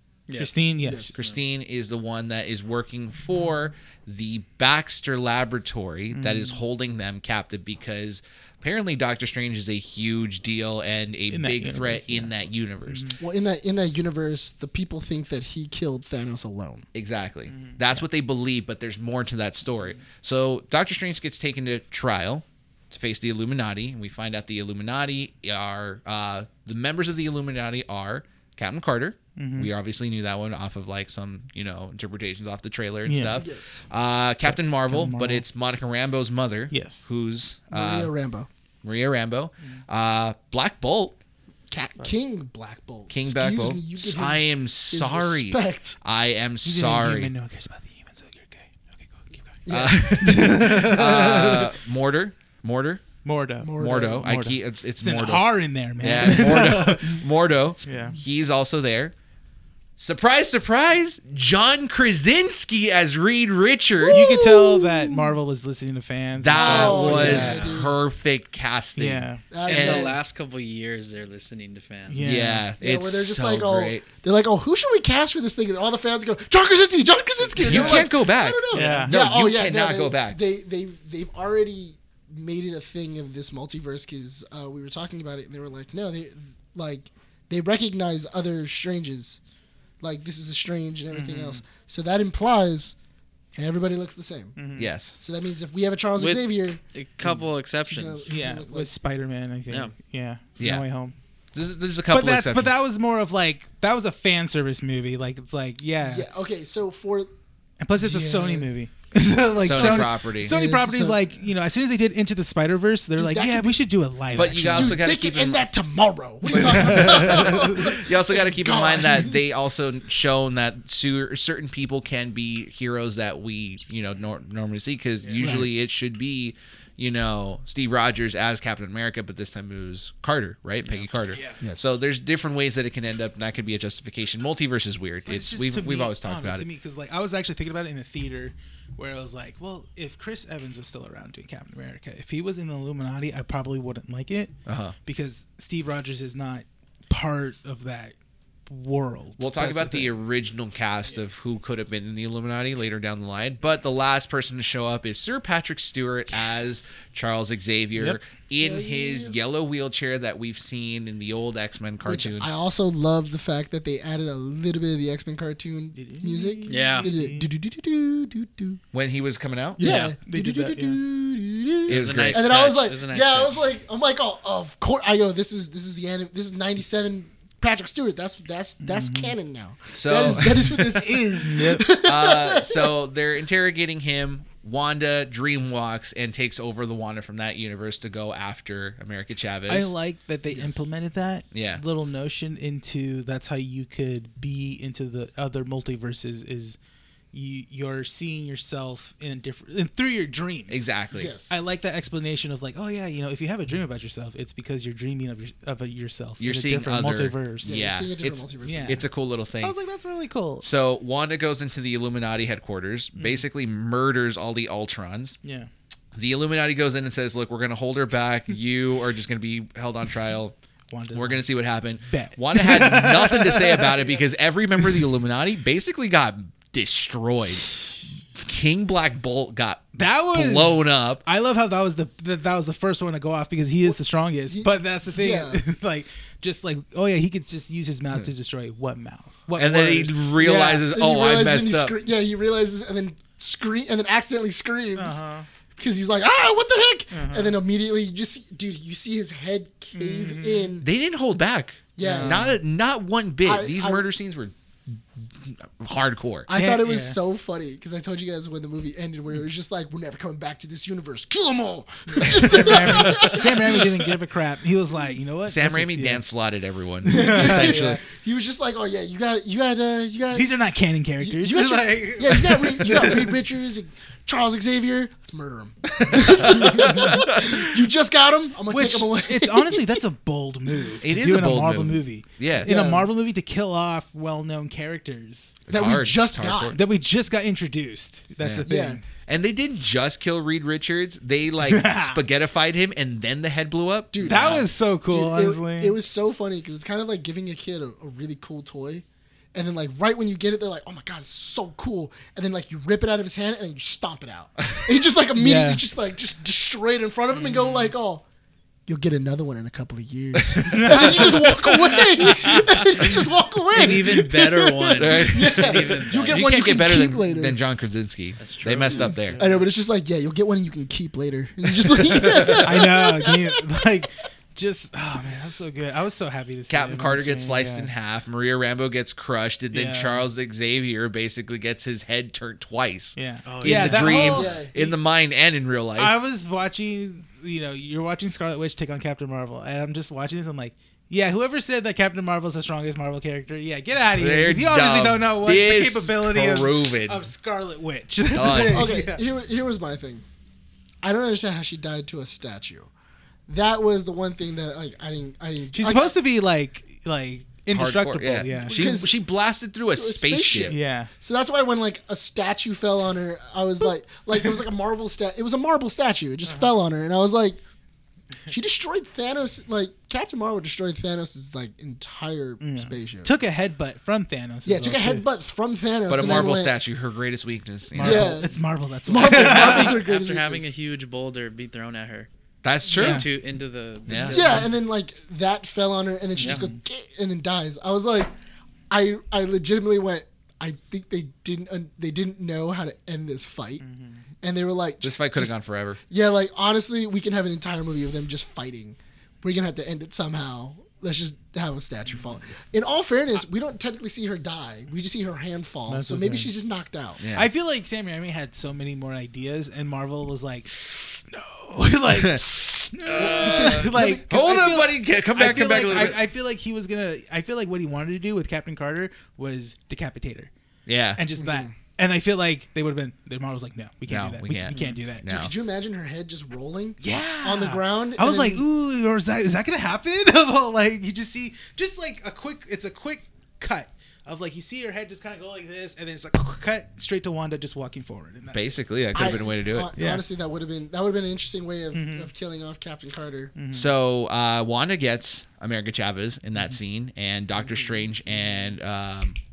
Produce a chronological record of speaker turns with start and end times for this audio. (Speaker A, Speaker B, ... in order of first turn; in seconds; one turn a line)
Speaker A: 0.3-0.6
Speaker B: 0.3-1.1
Speaker C: 0.8-1.1
Speaker D: 1.1-13.2
Speaker B: 6.1-6.6
Speaker B: 11.3-12.3
Speaker B: 12.9-13.2
Speaker C: 13.2-16.9
Speaker D: 16.9-38.1
Speaker B: 17.5-17.8
Speaker B: 29.4-29.7
Speaker B: 33.0-33.4
Speaker C: 33.3-33.8
Speaker B: 34.5-35.4
Speaker B: 36.7-37.1
Speaker C: 37.7-38.5
Speaker D: 38.8-41.2
Speaker C: 41.7-46.0
Speaker D: 43.1-47.3
Speaker B: 46.6-49.6
Speaker C: 49.6-51.4
Speaker D: 49.7-53.1
Speaker B: 50.2-51.5
Speaker B: 53.2-57.1
Speaker C: 53.6-54.3
Speaker D: 53.8-59.1
Speaker C: 56.3-57.2
Speaker B: 57.8-58.1
Speaker D: 60.0-64.3
Speaker C: 64.0-65.3
Speaker B: 64.1-67.6
Speaker D: 66.4-70.1
Speaker C: 66.5-68.0
Speaker A: 66.8-67.8
Speaker B: 69.0-69.4
Speaker C: 69.5-70.2
Speaker A: 69.7-72.4
Speaker B: 72.1-72.7
Speaker D: 72.2-74.0
Speaker C: 72.8-89.4
Speaker B: 77.6-78.0
Speaker D: 77.6-80.4
Speaker B: 78.7-79.2
Speaker C: 90.0-92.9
Speaker B: 91.1-91.6
Speaker C: 93.5-94.6
Speaker B: 94.5-94.9
Speaker D: 94.8-95.2
Speaker C: 95.2-98.9
Speaker A: 96.2-98.3
Speaker B: 98.3-101.1
Speaker D: 100.6-100.8
Speaker D: 101.5-102.7
Speaker B: 102.1-106.3
Speaker C: 106.0-107.3
Speaker B: 107.8-115.0
Speaker C: 108.0-108.7
Speaker C: 109.6-111.3
Speaker D: 109.6-110.5
Speaker C: 113.2-113.8
Speaker D: 114.3-115.6
Speaker C: 114.6-119.4
Speaker B: 116.5-117.6
Speaker D: 116.5-136.7
Speaker B: 125.2-125.7
Speaker C: 125.4-125.7
Speaker B: 130.9-131.6
Speaker C: 131.6-132.0
Speaker B: 135.3-148.2
Speaker D: 144.7-144.9
Speaker B: 148.7-150.1
Speaker D: 149.4-162.5
Speaker B: 157.9-158.2
Speaker C: 158.6-159.3
Speaker C: 162.0-168.8
Speaker B: 165.9-167.5
Speaker A: 166.7-167.1
Speaker D: 168.9-170.0
Speaker B: 169.8-171.0
Speaker C: 169.8-182.9
Speaker D: 171.9-172.5
Speaker A: 171.9-173.6
Speaker B: 178.8-179.3
Speaker D: 179.9-181.0
Speaker B: 181.4-181.9
Speaker D: 181.9-189.9
Speaker B: 189.7-196.8
Speaker D: 191.5-191.8
Speaker B: 197.3-200.9
Speaker D: 200.7-201.3
Speaker C: 201.1-201.5
Speaker B: 201.5-207.8
Speaker D: 206.4-209.8
Speaker C: 207.6-209.1
Speaker B: 208.6-209.0
Speaker B: 209.6-210.7
Speaker D: 210.6-215.4
Speaker B: 213.2-213.4
Speaker B: 215.4-215.7
Speaker D: 216.1-220.5
Speaker B: 220.9-221.4
Speaker D: 221.1-227.8
Speaker B: 222.0-224.1
Speaker D: 228.3-231.2
Speaker B: 229.9-240.8
Speaker C: 233.8-235.6
Speaker D: 239.6-241.9
Speaker C: 240.5-245.2
Speaker B: 244.9-245.5
Speaker C: 245.8-250.9
Speaker B: 247.1-247.6
Speaker B: 249.9-250.7
Speaker D: 250.8-256.5
Speaker C: 251.9-252.6
Speaker B: 252.0-252.6
Speaker C: 253.4-254.1
Speaker C: 256.5-263.9
Speaker B: 256.5-257.2
Speaker B: 262.2-266.2
Speaker D: 265.4-268.0
Speaker B: 267.0-268.0
Speaker C: 267.1-270.5
Speaker B: 270.3-273.3
Speaker C: 271.2-280.0
Speaker B: 276.0-277.2
Speaker D: 276.9-277.6
Speaker B: 278.7-285.6
Speaker D: 281.0-282.7
Speaker C: 282.6-283.1
Speaker D: 285.7-286.8
Speaker C: 285.7-286.8
Speaker B: 286.7-289.0
Speaker D: 288.4-294.7
Speaker C: 288.6-289.0
Speaker B: 291.6-292.2
Speaker C: 294.1-308.2
Speaker B: 294.2-295.9
Speaker B: 305.4-305.8
Speaker B: 307.4-307.8
Speaker C: 308.9-317.6
Speaker D: 310.4-312.0
Speaker B: 310.6-311.7
Speaker A: 313.7-316.5
Speaker D: 314.9-319.4
Speaker A: 318.4-319.4
Speaker B: 318.9-319.6
Speaker C: 319.4-323.6
Speaker D: 321.9-322.6
Speaker B: 322.6-327.9
Speaker D: 326.7-336.1
Speaker B: 329.7-330.3
Speaker B: 333.1-334.6
Speaker A: 333.4-334.4
Speaker C: 334.2-334.9
Speaker B: 336.0-349.2
Speaker D: 344.1-347.3
Speaker D: 348.3-348.9
Speaker C: 348.3-350.2
Speaker C: 351.0-352.9
Speaker C: 353.5-356.1
Speaker B: 355.7-359.0
Speaker D: 357.7-360.8
Speaker C: 358.5-359.1
Speaker C: 359.9-367.6
Speaker B: 360.7-361.1
Speaker C: 368.5-373.3
Speaker B: 372.6-375.2
Speaker C: 374.6-376.8
Speaker D: 376.1-378.4
Speaker B: 377.9-380.0
Speaker C: 378.0-380.7
Speaker A: 379.1-382.3
Speaker D: 382.6-383.3
Speaker A: 382.9-384.7
Speaker B: 382.9-383.3
Speaker D: 384.1-384.4
Speaker C: 384.2-388.3
Speaker B: 384.3-384.7
Speaker B: 386.4-386.8
Speaker C: 388.9-393.8
Speaker B: 393.8-394.2
Speaker C: 394.4-395.5
Speaker D: 395.0-396.0
Speaker C: 396.1-407.2
Speaker B: 405.9-406.5
Speaker D: 407.2-407.5
Speaker B: 407.3-420.5
Speaker D: 412.1-416.2
Speaker C: 413.1-414.9
Speaker C: 415.4-416.1
Speaker D: 420.9-421.2
Speaker B: 421.1-425.2
Speaker C: 421.4-421.7
Speaker D: 424.1-425.5
Speaker C: 424.8-428.6
Speaker B: 427.0-438.8
Speaker D: 438.5-439.9
Speaker C: 439.1-443.5
Speaker B: 439.9-440.2
Speaker B: 441.9-442.3
Speaker B: 443.6-443.9
Speaker D: 443.7-449.4
Speaker C: 447.6-448.1